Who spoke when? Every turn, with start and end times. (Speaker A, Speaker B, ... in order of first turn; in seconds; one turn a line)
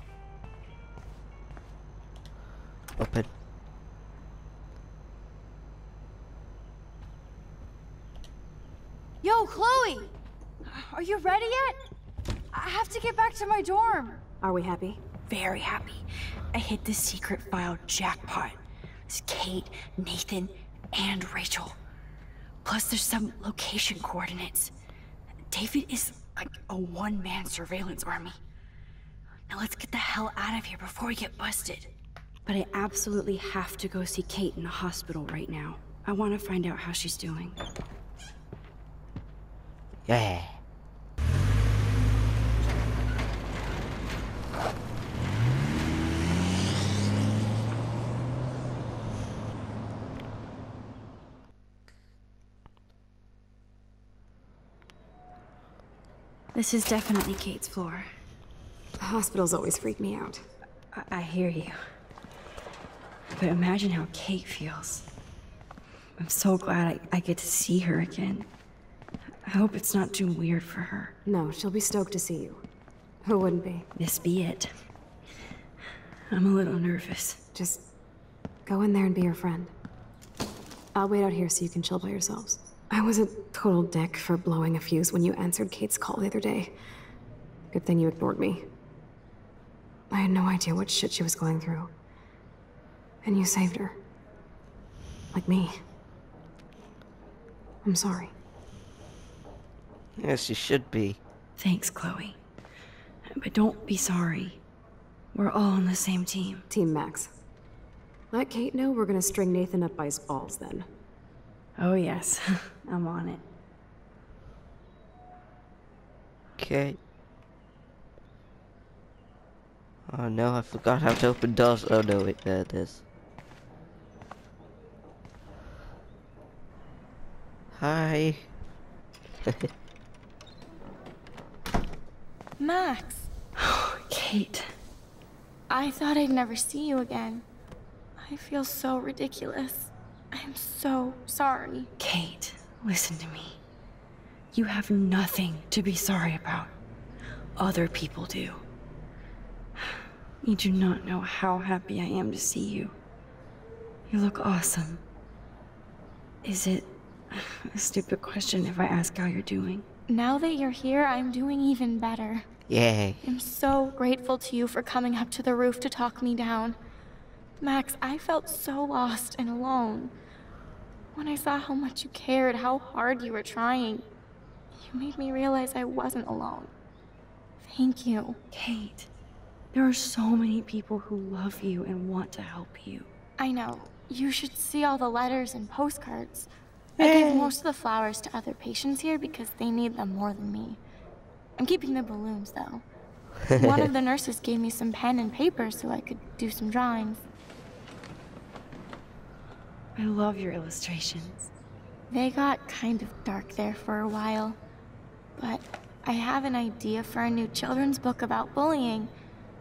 Speaker A: 3.0-3.3
Speaker B: 9.2-10.1
Speaker B: 10.6-11.8
Speaker B: 12.5-14.2
Speaker C: 14.4-15.0
Speaker B: 15.3-21.8
Speaker B: 22.6-24.7
Speaker B: 25.5-28.4
Speaker B: 29.5-31.9
Speaker B: 32.5-37.6
Speaker A: 40.0-40.6
Speaker B: 56.5-58.1
Speaker C: 59.0-60.4
Speaker B: 60.9-61.8
Speaker B: 63.4-65.1
Speaker B: 66.2-68.5
Speaker B: 69.5-71.1
Speaker C: 71.2-72.6
Speaker C: 73.2-73.9
Speaker B: 74.0-74.7
Speaker B: 76.3-77.4
Speaker C: 77.5-77.8
Speaker C: 78.7-79.7
Speaker C: 81.0-86.7
Speaker C: 87.7-88.6
Speaker C: 90.1-91.9
Speaker C: 93.2-94.0
Speaker C: 95.3-95.8
Speaker C: 97.8-98.3
Speaker A: 100.2-101.2
Speaker B: 101.6-102.4
Speaker B: 103.3-104.6
Speaker B: 105.3-106.7
Speaker C: 106.7-107.3
Speaker C: 108.3-110.9
Speaker B: 111.8-113.4
Speaker A: 116.6-117.0
Speaker A: 120.1-123.0
Speaker A: 127.7-128.5
Speaker D: 132.6-133.3
Speaker B: 133.6-134.7
Speaker D: 135.7-137.4
Speaker D: 138.2-141.9
Speaker B: 142.0-143.6
Speaker B: 144.5-146.7
Speaker B: 147.6-148.6
Speaker B: 149.9-152.9
Speaker B: 154.1-155.0
Speaker B: 156.4-159.9
Speaker D: 160.1-162.5
Speaker A: 162.7-163.2
Speaker D: 163.2-166.8
Speaker D: 167.6-170.1
Speaker D: 171.1-174.1
Speaker D: 174.8-176.7
Speaker D: 177.6-178.4
Speaker B: 178.5-179.1
Speaker B: 179.7-183.1
Speaker D: 183.4-190.8
Speaker A: 187.0-187.5
Speaker D: 191.6-192.8
Speaker A: 193.5-193.9
Speaker D: 193.5-197.2
Speaker B: 200.0-201.5
Speaker D: 202.1-204.6
Speaker D: 205.4-209.1